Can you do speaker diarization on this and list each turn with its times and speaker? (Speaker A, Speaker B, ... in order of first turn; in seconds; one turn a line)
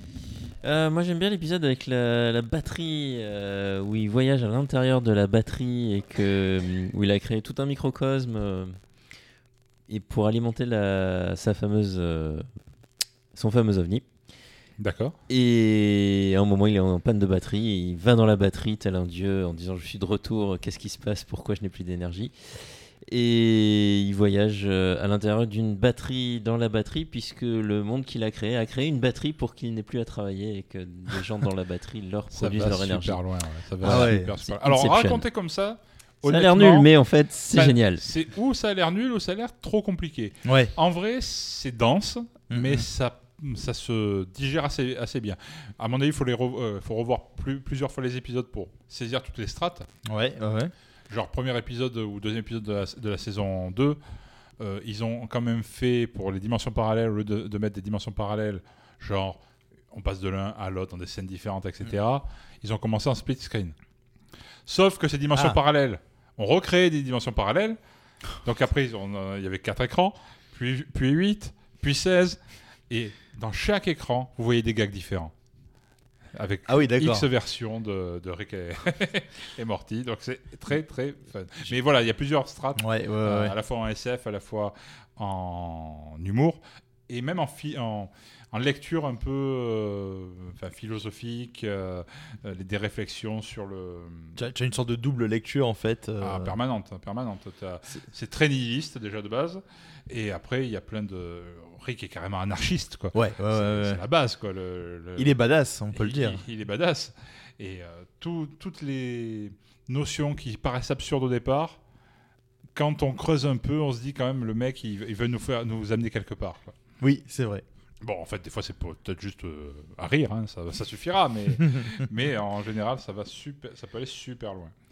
Speaker A: 0.6-8.8
Speaker A: 9.9-12.5
Speaker A: 13.3-14.1
Speaker B: 14.8-15.2
Speaker A: 15.3-33.2
Speaker B: 32.3-36.9
Speaker A: 33.8-35.2
Speaker C: 33.8-34.3
Speaker A: 36.2-38.0
Speaker B: 37.5-49.9
Speaker C: 40.5-40.7
Speaker C: 42.5-42.9
Speaker C: 50.1-50.7
Speaker B: 51.1-54.0
Speaker B: 54.6-63.8
Speaker B: 64.7-67.8
Speaker B: 68.4-75.3
Speaker B: 76.3-94.4
Speaker C: 76.7-77.3
Speaker C: 82.8-83.6
Speaker C: 94.4-96.5
Speaker B: 96.2-105.4
Speaker C: 103.2-104.0
Speaker C: 105.2-106.4
Speaker B: 105.9-111.8
Speaker B: 112.7-116.8
Speaker C: 117.0-117.6
Speaker B: 118.0-124.7